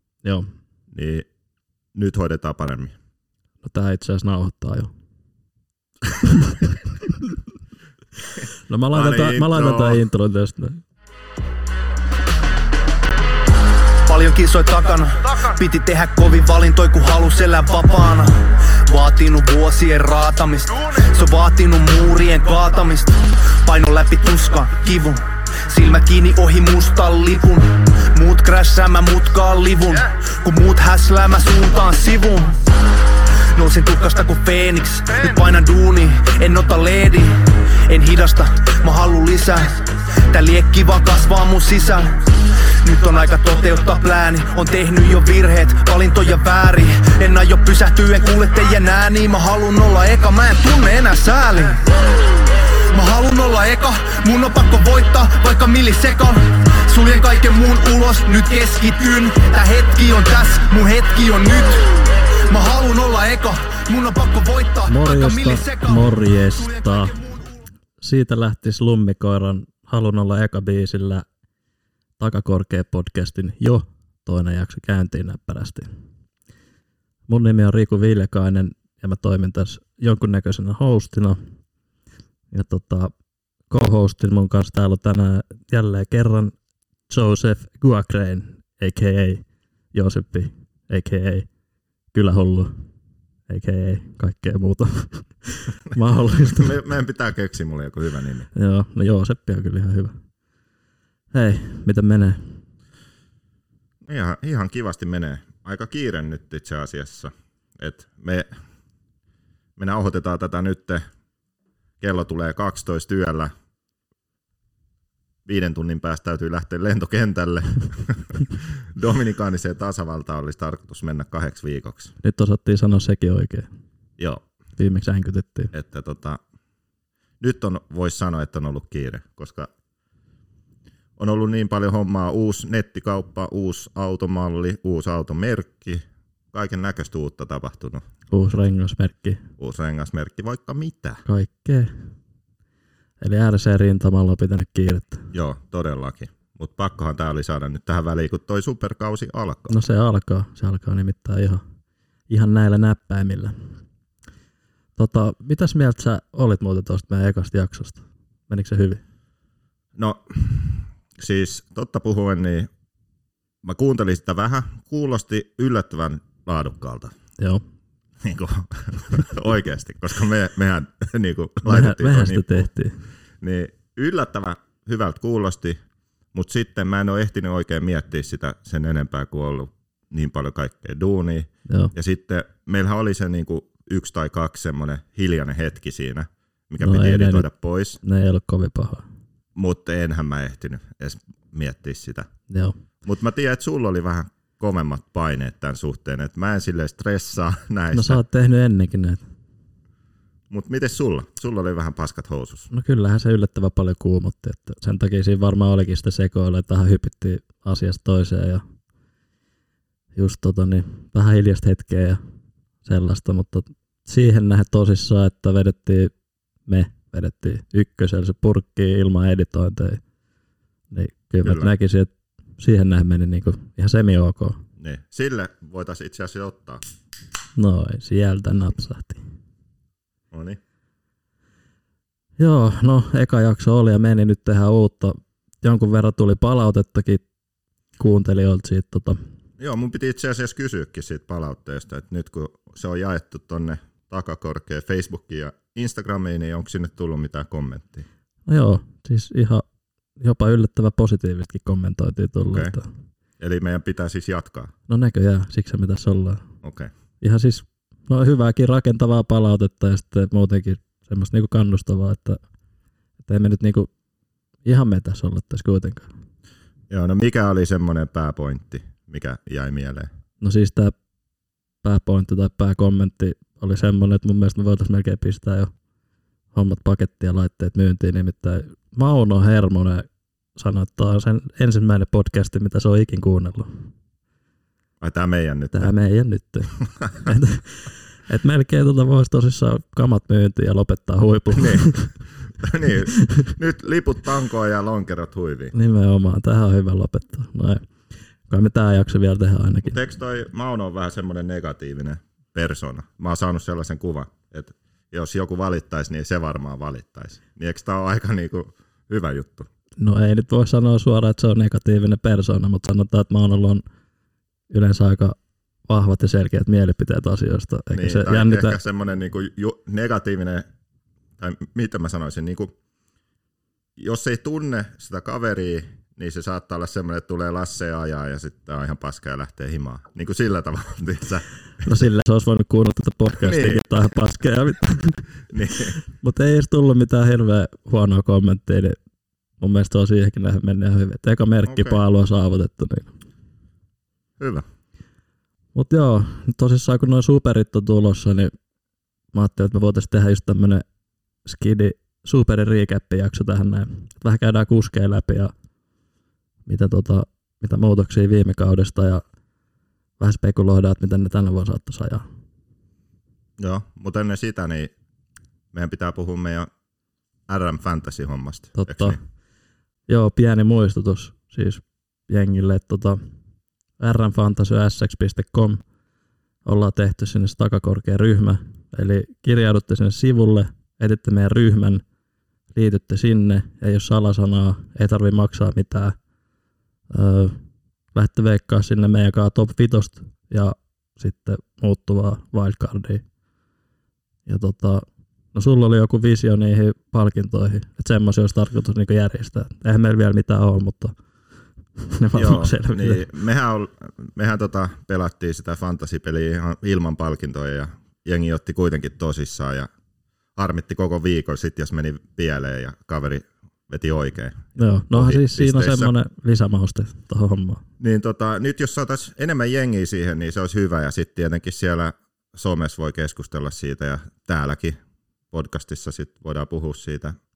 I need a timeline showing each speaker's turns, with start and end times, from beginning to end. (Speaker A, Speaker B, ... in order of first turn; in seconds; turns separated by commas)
Speaker A: 0.9-1.3, Speaker A: 1.9-2.9, Speaker B: 3.6-4.9, Speaker B: 6.2-6.8, Speaker B: 8.7-10.8, Speaker A: 8.9-10.0, Speaker C: 14.0-32.6, Speaker C: 33.5-51.9, Speaker C: 52.9-67.5, Speaker B: 64.9-67.2, Speaker B: 68.0-71.3, Speaker B: 72.2-75.9, Speaker B: 77.3-81.4, Speaker B: 82.5-83.1, Speaker B: 83.7-86.5, Speaker B: 87.1-91.5, Speaker B: 92.1-92.8, Speaker B: 93.5-96.8, Speaker A: 96.4-98.5, Speaker B: 98.5-100.2, Speaker B: 101.3-102.6, Speaker A: 104.0-108.5, Speaker A: 109.8-111.1, Speaker A: 112.0-113.5, Speaker A: 115.5-122.1, Speaker B: 122.2-123.7, Speaker B: 124.8-125.7, Speaker A: 125.7-126.4, Speaker A: 127.4-129.7, Speaker A: 131.2-138.1, Speaker B: 138.3-139.4, Speaker A: 139.6-141.2, Speaker B: 141.3-142.0, Speaker B: 143.2-145.3, Speaker A: 145.3-149.8, Speaker B: 149.7-151.6, Speaker B: 152.3-153.8, Speaker B: 155.0-159.0, Speaker A: 160.0-162.7, Speaker A: 163.6-167.2, Speaker A: 168.2-172.7, Speaker B: 171.7-173.0, Speaker A: 173.4-175.8, Speaker A: 176.3-188.0, Speaker B: 186.8-187.5, Speaker B: 188.0-189.1, Speaker A: 189.6-192.3, Speaker B: 192.5-192.8, Speaker A: 193.0-198.2, Speaker B: 197.9-199.2, Speaker A: 200.5-202.7, Speaker B: 202.7-208.6, Speaker B: 210.2-212.2, Speaker B: 212.8-216.1, Speaker B: 216.7-220.0, Speaker B: 220.9-224.6, Speaker A: 221.4-221.7, Speaker A: 224.8-226.8, Speaker B: 227.6-229.2, Speaker A: 230.3-230.6, Speaker B: 232.4-237.2, Speaker B: 238.0-239.2, Speaker A: 239.6-248.1, Speaker B: 248.5-249.7, Speaker B: 250.2-252.9, Speaker A: 253.4-254.7, Speaker B: 254.9-256.4, Speaker A: 256.6-256.9, Speaker B: 257.2-262.4, Speaker B: 263.2-263.9, Speaker B: 264.6-266.1, Speaker A: 266.9-270.1, Speaker B: 270.4-270.9, Speaker B: 271.8-275.7, Speaker B: 276.5-283.9, Speaker A: 285.0-285.9, Speaker B: 285.7-292.1, Speaker A: 291.5-295.7, Speaker B: 295.7-297.9, Speaker B: 298.5-300.0, Speaker A: 299.8-309.7, Speaker B: 310.0-313.8, Speaker B: 314.7-315.4, Speaker B: 315.9-318.8, Speaker A: 317.9-320.7, Speaker A: 321.4-322.7, Speaker A: 324.0-331.5, Speaker B: 331.8-335.2, Speaker A: 333.4-333.8, Speaker A: 335.5-336.0, Speaker B: 336.1-339.0, Speaker B: 339.6-343.1, Speaker A: 341.7-342.0, Speaker A: 344.4-344.7, Speaker B: 345.8-348.5, Speaker B: 349.3-350.9, Speaker B: 351.4-355.5, Speaker B: 356.7-359.2, Speaker B: 360.2-362.3, Speaker A: 363.6-364.9, Speaker A: 365.7-366.7, Speaker A: 367.5-369.2, Speaker B: 368.8-369.2, Speaker B: 370.1-373.2, Speaker B: 374.0-375.8, Speaker B: 376.6-382.0, Speaker B: 382.7-386.2, Speaker B: 387.1-387.6, Speaker B: 388.1-393.2, Speaker B: 394.5-401.2, Speaker B: 402.0-403.3, Speaker A: 402.3-409.9, Speaker A: 410.6-416.1, Speaker B: 414.8-417.8, Speaker A: 418.0-425.0, Speaker A: 425.5-427.4